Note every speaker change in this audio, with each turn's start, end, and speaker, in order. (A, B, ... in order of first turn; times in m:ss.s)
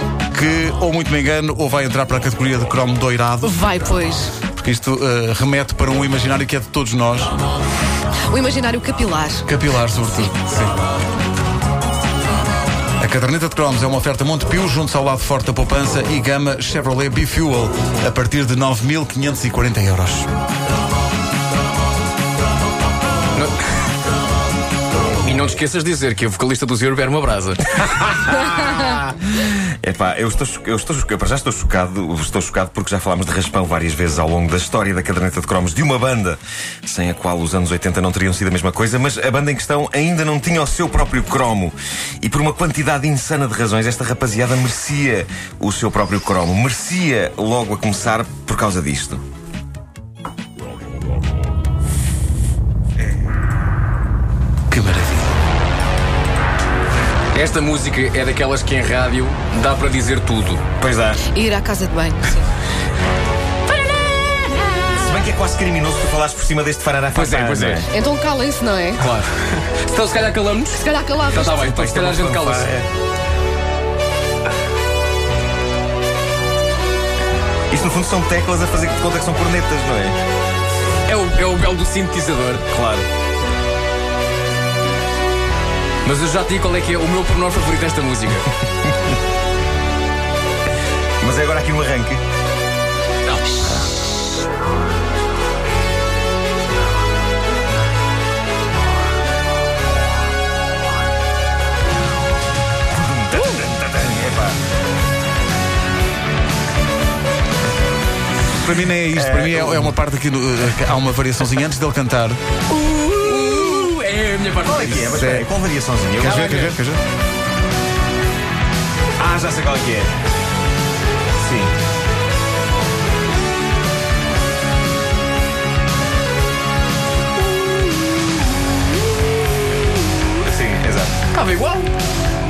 0:00.3-0:03.6 A
0:03.4-0:04.3 B
0:04.4-0:07.3 A
0:08.3-0:09.5 B
0:09.4-0:10.7 A
0:13.0-0:20.3 A
0:25.2-0:28.3 C
0:28.3-0:49.2 D
0:54.7-0:55.3 A
0:57.3-1:00.6 C
1:00.8-1:01.2 D
1:01.2-1:02.5 B
1:04.9-1:07.9 D
1:07.1-1:07.9 C
1:07.9-1:09.0 B
1:09.0-1:12.7 C
1:10.7-1:11.6 B
1:11.6-1:12.9 D
1:17.7-1:20.2 D
1:21.0-1:22.6 C
1:22.6-1:23.1 D
1:26.0-1:28.5 C
1:31.2-1:32.2 D
1:42.9-1:44.6 D
1:48.5-1:52.4 A
1:49.1-1:50.0 D
1:52.7-1:55.1 C
1:54.6-1:56.8 D
1:55.2-1:55.4 A
1:56.2-1:57.0 A
1:59.2-2:00.1 D
2:01.3-2:01.7 D
2:10.4-2:11.2 D
2:11.3-2:11.9 C